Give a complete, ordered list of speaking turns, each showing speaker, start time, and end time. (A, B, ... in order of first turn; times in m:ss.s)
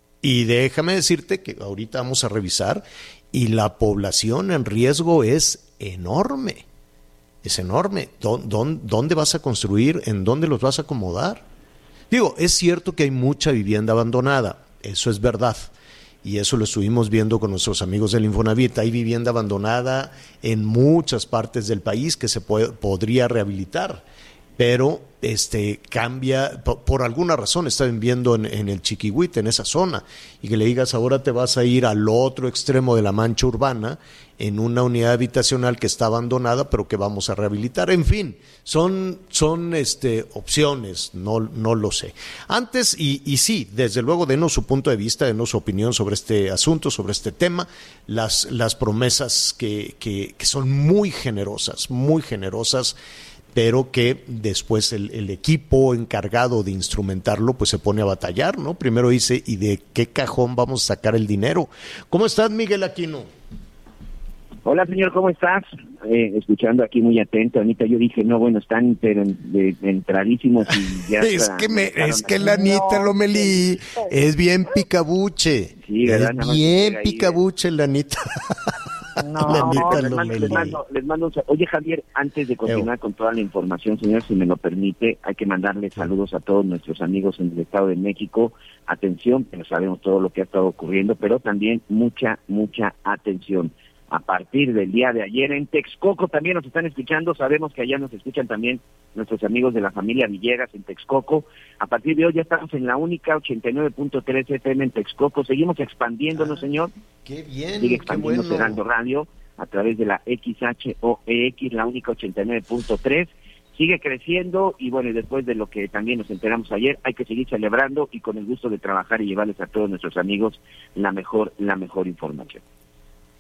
0:00.2-0:06.7 A
0:07.4-0:11.4 A
0:12.1-0:15.7 A
0:16.2-0:24.0 A
0:24.6-0:53.0 A
0:53.5-1:03.3 A
1:04.6-1:13.0 B
1:11.2-1:18.7 A
1:12.3-1:14.1 C
1:15.8-1:17.4 B
1:19.2-1:20.6 C
1:19.4-1:20.8 A
1:19.4-1:46.9 B
1:46.4-1:46.6 A
1:47.2-1:48.8 A
1:47.8-2:02.6 B